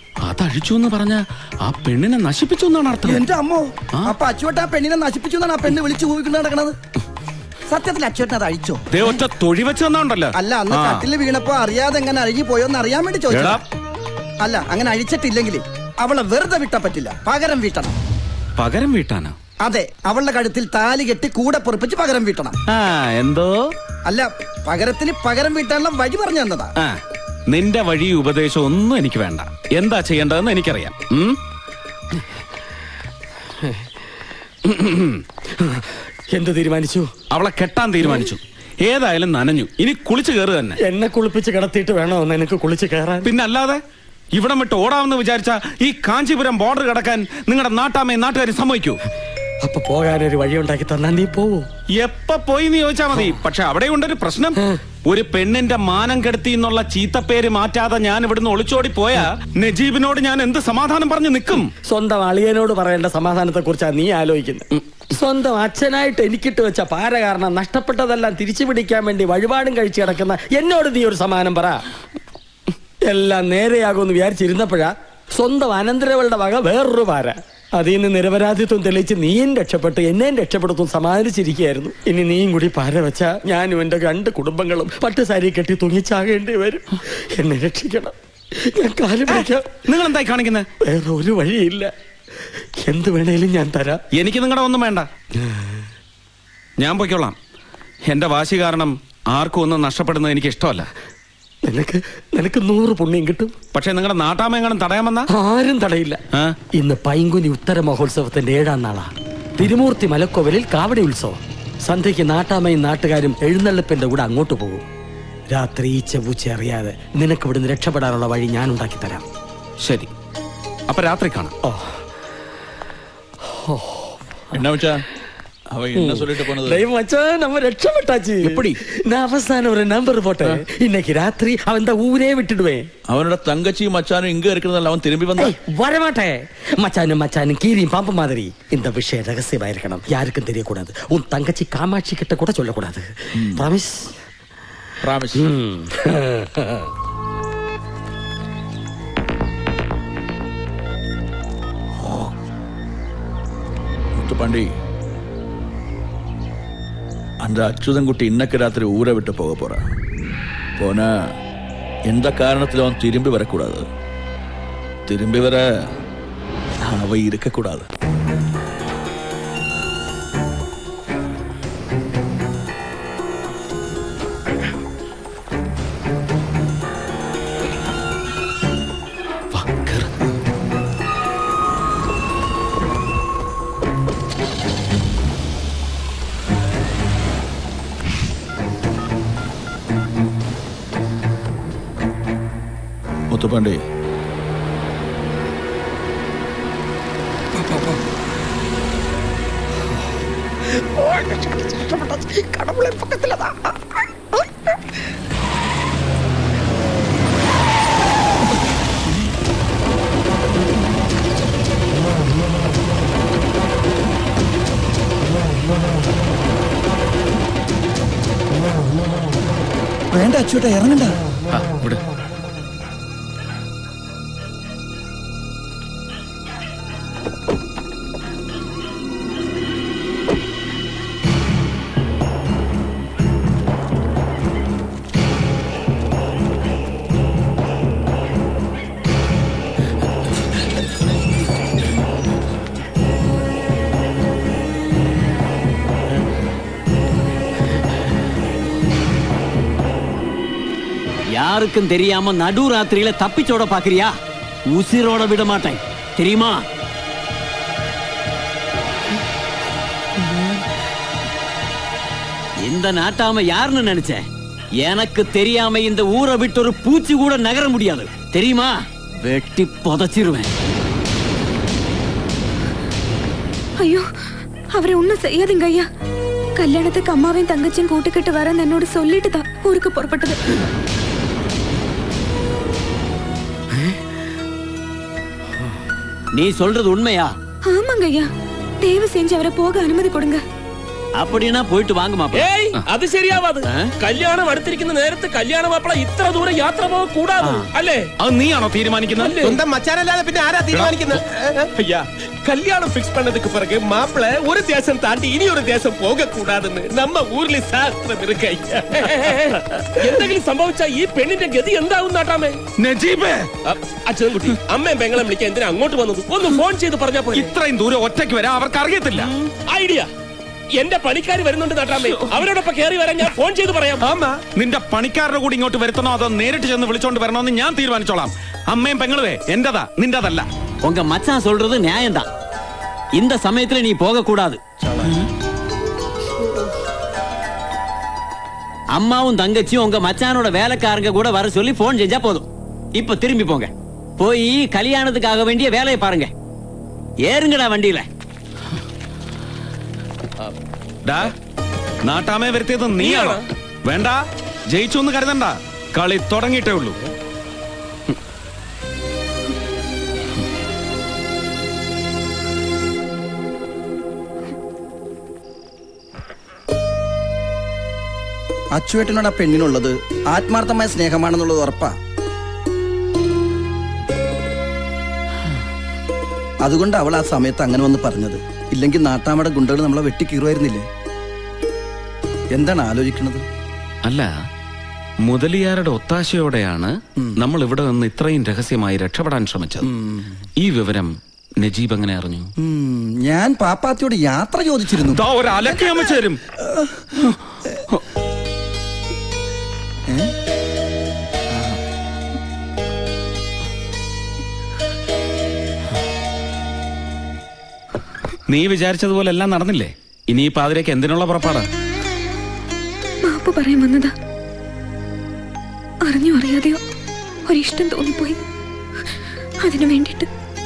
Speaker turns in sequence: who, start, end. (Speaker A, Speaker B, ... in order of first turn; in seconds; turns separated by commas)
Speaker A: 0.2-3.2, Speaker B: 3.0-6.8, Speaker B: 7.7-9.1, Speaker A: 8.9-11.1, Speaker B: 10.3-13.6, Speaker A: 13.3-13.6, Speaker B: 14.4-17.9, Speaker A: 18.6-19.4, Speaker B: 19.6-22.6, Speaker A: 22.7-23.6, Speaker B: 24.1-26.7, Speaker A: 27.5-31.4, Speaker C: 35.6-37.1, Speaker A: 37.3-40.8, Speaker C: 40.8-43.3, Speaker A: 43.2-43.8, Speaker A: 44.4-49.0, Speaker C: 49.6-51.7, Speaker A: 52.0-61.7, Speaker C: 61.9-71.8, Speaker C: 73.1-86.8, Speaker C: 87.4-88.1, Speaker C: 88.7-89.7, Speaker A: 89.3-90.7, Speaker C: 90.8-91.9, Speaker C: 92.8-94.0, Speaker A: 94.1-95.1, Speaker A: 96.8-97.3, Speaker A: 98.1-100.9, Speaker C: 101.7-103.5, Speaker A: 103.8-105.3, Speaker C: 105.3-106.2, Speaker C: 106.8-114.8, Speaker C: 115.5-119.2, Speaker A: 119.8-120.1, Speaker A: 120.9-121.5, Speaker C: 121.6-121.9, Speaker C: 123.5-124.1, Speaker D: 124.5-125.0, Speaker D: 125.8-126.8, Speaker C: 126.0-132.9, Speaker D: 133.1-135.5, Speaker C: 135.4-144.1, Speaker C: 145.3-146.8, Speaker D: 152.0-152.3, Speaker D: 154.2-154.7, Speaker D: 157.4-159.8, Speaker D: 160.8-161.3, Speaker D: 162.1-163.8, Speaker D: 165.1-165.6, Speaker D: 166.8-167.9, Speaker D: 193.3-193.8, Speaker B: 220.1-221.1, Speaker A: 221.5-222.0, Speaker E: 251.3-254.2, Speaker E: 254.7-256.6, Speaker E: 262.6-264.2, Speaker E: 264.8-270.5, Speaker F: 274.8-275.9, Speaker F: 276.6-280.4, Speaker E: 286.3-287.3, Speaker F: 287.7-288.3, Speaker F: 288.8-290.4, Speaker E: 291.2-292.5, Speaker G: 292.3-298.1, Speaker A: 298.2-299.6, Speaker H: 299.2-308.9, Speaker G: 309.0-312.6, Speaker A: 312.8-313.5, Speaker G: 313.7-317.5, Speaker A: 317.3-319.3, Speaker G: 319.4-320.1, Speaker G: 320.8-324.1, Speaker H: 324.0-324.3, Speaker A: 324.6-330.5, Speaker E: 330.8-332.3, Speaker E: 333.2-334.6, Speaker E: 339.0-346.3, Speaker E: 347.2-348.1, Speaker A: 351.1-351.3, Speaker A: 352.1-354.2, Speaker G: 353.0-353.4, Speaker A: 354.7-357.0, Speaker B: 368.8-371.9, Speaker B: 376.6-380.9, Speaker B: 382.6-383.4, Speaker A: 385.2-389.9, Speaker A: 390.6-392.5, Speaker B: 392.6-395.2, Speaker A: 395.1-396.4, Speaker B: 396.7-397.1, Speaker B: 401.5-401.8, Speaker A: 408.5-411.7, Speaker F: 413.2-414.1, Speaker F: 416.0-416.8, Speaker F: 417.5-418.4, Speaker F: 419.6-420.3